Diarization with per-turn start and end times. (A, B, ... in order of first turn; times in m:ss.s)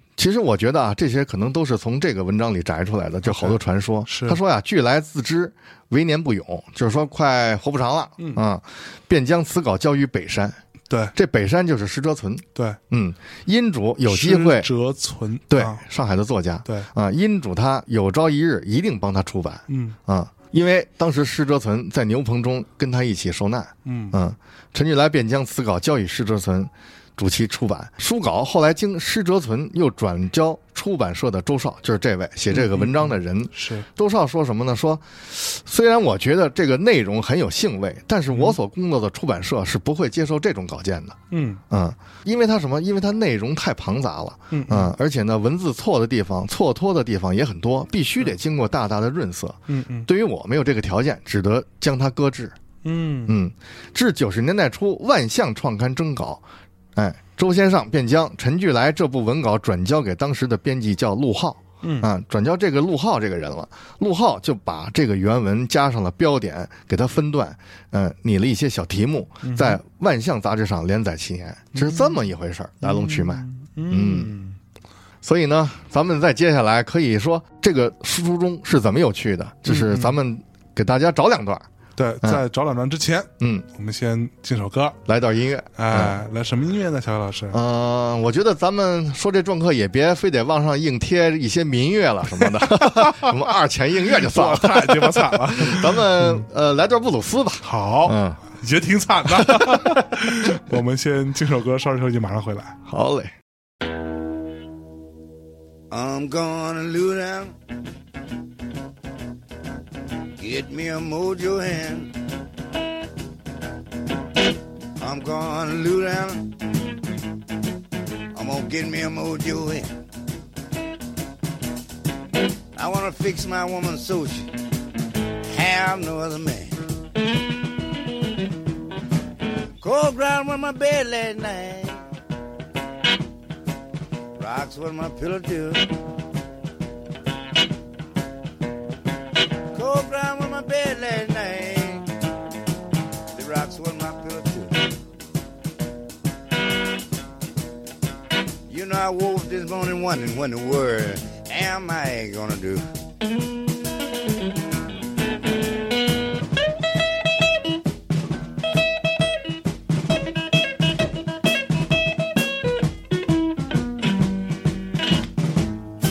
0:00.2-0:10.6 A
0:03.2-0:04.4 B
0:08.2-0:08.4 B
0:10.9-0:11.1 B
0:11.1-0:14.7 A
0:14.1-0:15.8 B
0:15.5-0:41.2 A
0:16.6-0:16.9 B
0:19.7-0:20.0 B
0:23.8-0:24.2 B
0:32.5-0:33.9 B
0:38.3-0:38.6 B
0:41.3-0:41.6 B
0:41.7-0:52.6 A
0:44.5-0:44.9 B
0:49.7-0:50.1 B
0:52.8-0:53.4 B
0:53.2-0:56.4 A
0:56.9-1:14.3 A
1:01.8-1:02.1 B
1:09.4-1:09.8 B
1:11.7-1:12.2 B
1:12.8-1:14.6 B
1:15.2-1:21.6 A
1:19.6-1:20.2 B
1:22.0-1:25.0 B
1:23.4-1:23.6 A
1:25.0-1:26.2 A
1:25.8-1:27.6 B
1:27.5-1:38.4 A
1:32.4-1:33.3 B
1:34.1-1:36.4 B
1:37.6-1:42.8 B
1:39.3-1:40.0 A
1:42.8-1:43.3 A
1:45.9-1:47.5 C
1:50.4-1:52.1 C
1:55.0-1:56.5 C
1:58.3-1:59.9 C
2:02.8-2:04.5 C
2:05.4-2:06.8 C
2:09.8-2:12.0 C
2:14.4-2:15.9 C
2:19.7-2:22.0 C
2:23.3-2:24.9 C
2:28.7-2:32.8 C